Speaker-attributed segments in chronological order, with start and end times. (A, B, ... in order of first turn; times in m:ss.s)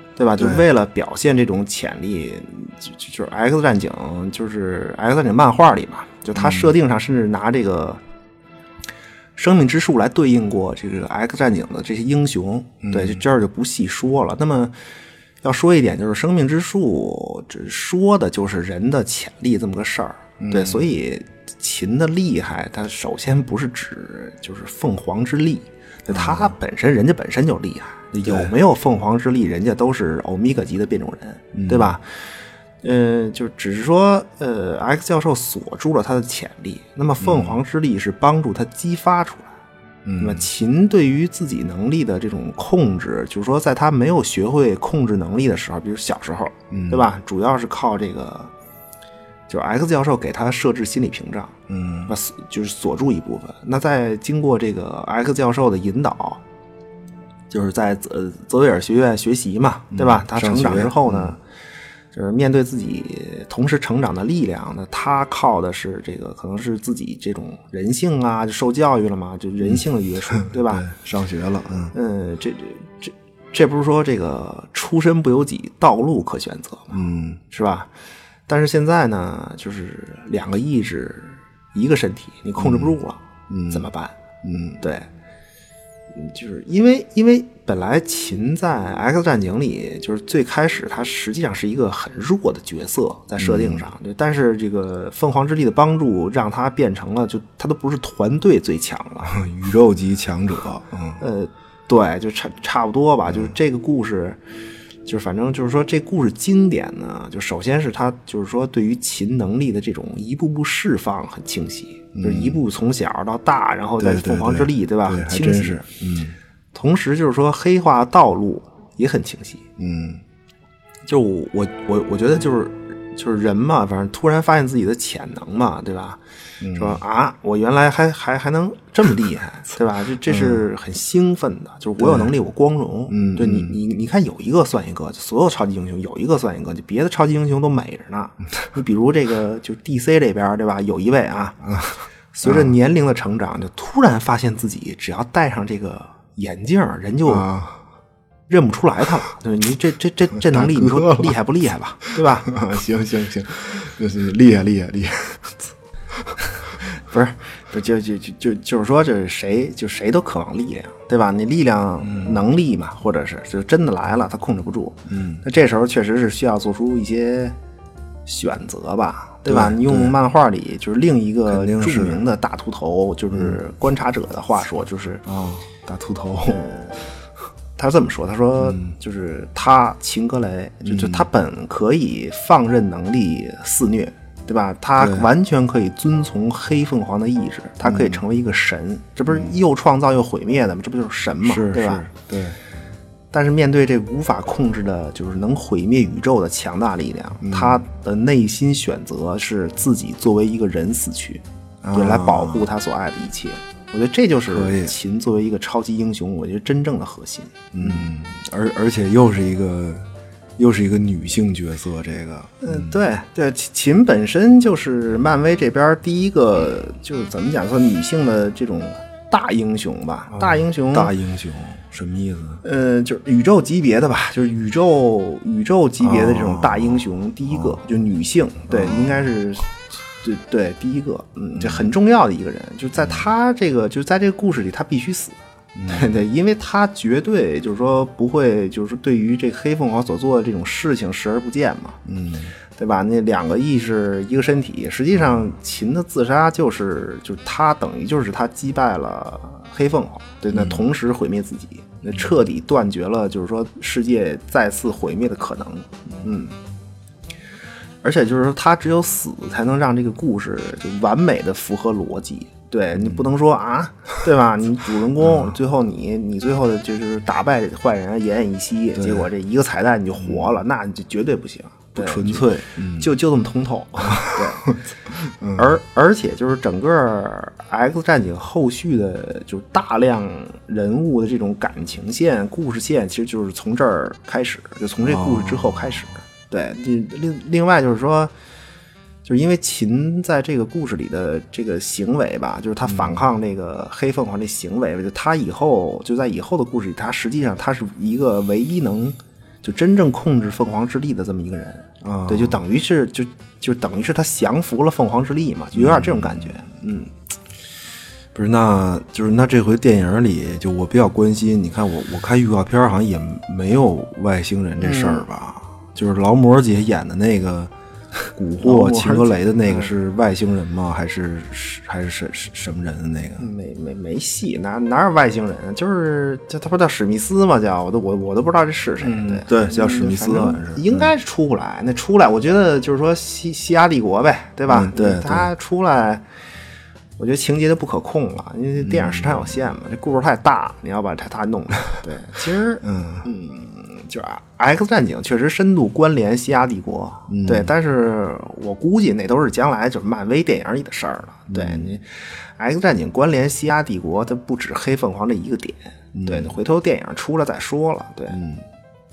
0:00.2-0:08.0 A
0:00.4-0:00.6 B
0:06.3-0:06.7 B
0:09.4-0:14.8 A
0:12.8-0:13.2 B
0:15.4-0:32.3 A
0:20.4-0:20.9 B
0:26.1-0:26.5 B
0:28.1-0:28.5 B
0:31.5-0:31.9 B
0:32.8-0:39.5 A
0:37.2-0:37.6 B
0:40.0-0:40.4 B
0:40.2-0:48.5 A
0:46.7-0:47.0 B
0:49.5-0:56.4 A
0:51.7-0:52.1 B
0:57.5-1:01.4 A
0:59.9-1:01.4 B
1:02.1-1:10.9 A
1:09.6-1:11.9 B
1:11.9-1:17.9 A
1:16.9-1:17.4 B
1:18.5-1:24.2 A
1:22.6-1:22.9 B
1:23.5-1:23.9 B
1:24.4-1:24.8 B
1:24.8-1:25.1 A
1:26.1-1:39.4 A
1:33.4-1:33.8 B
1:39.2-1:41.2 B
1:41.2-1:44.4 A
1:43.3-1:43.5 B
1:45.0-1:55.8 A
1:52.1-1:52.6 B
1:54.0-1:56.4 B
1:56.7-1:59.7 A
1:59.8-2:00.2 B
2:01.1-2:06.2 A
2:06.6-2:07.0 B
2:06.7-2:27.5 A
2:10.2-2:10.6 B
2:12.0-2:12.3 B
2:13.1-2:13.8 B
2:22.4-2:22.7 B
2:27.2-2:27.8 B
2:28.5-2:32.6 A
2:30.3-2:31.3 B
2:32.0-2:35.7 B
2:36.9-2:47.6 A
2:42.0-2:42.4 B
2:45.1-2:45.4 B
2:48.2-2:55.2 A
2:49.4-2:50.2 B
2:51.5-2:52.2 B
2:53.3-2:53.6 B
2:55.2-2:56.6 B
2:56.4-2:57.0 A
2:57.8-3:12.1 A
2:58.6-2:58.9 B
3:00.8-3:01.3 B
3:05.0-3:05.3 B
3:07.8-3:08.2 B
3:11.4-3:12.6 B
3:13.3-3:28.1 A
3:17.4-3:17.8 B
3:21.8-3:22.7 B
3:24.5-3:24.9 B
3:27.7-3:30.0 B
3:30.6-3:33.0 B
3:32.6-3:41.1 A
3:40.3-3:42.6 B
3:42.6-4:02.0 A
3:46.0-3:47.8 B
3:48.7-3:49.2 B
3:51.5-3:51.9 B
3:55.7-3:56.2 B
4:02.0-4:02.5 B
4:02.8-4:16.5 A
4:05.2-4:05.5 B
4:10.5-4:10.8 B
4:18.0-4:34.7 A
4:22.9-4:23.2 B
4:25.2-4:25.6 B
4:28.9-4:29.3 B
4:30.2-4:30.6 B
4:32.0-4:33.1 B
4:34.0-4:35.7 B
4:35.6-4:48.3 A
4:45.0-4:46.2 B
4:49.2-5:07.1 A
4:52.8-4:53.2 B
5:02.0-5:02.6 B
5:05.7-5:06.7 B
5:08.3-5:23.5 B
5:14.8-5:15.2 A
5:18.6-5:19.9 A
5:23.4-5:36.2 A
5:29.0-5:31.1 B
5:34.7-5:35.5 B
5:37.2-5:58.4 A
5:38.8-5:39.6 B
5:42.8-5:43.3 B
5:47.3-5:47.7 B
5:51.5-5:51.9 B
5:56.1-5:56.6 B
5:58.3-5:58.6 B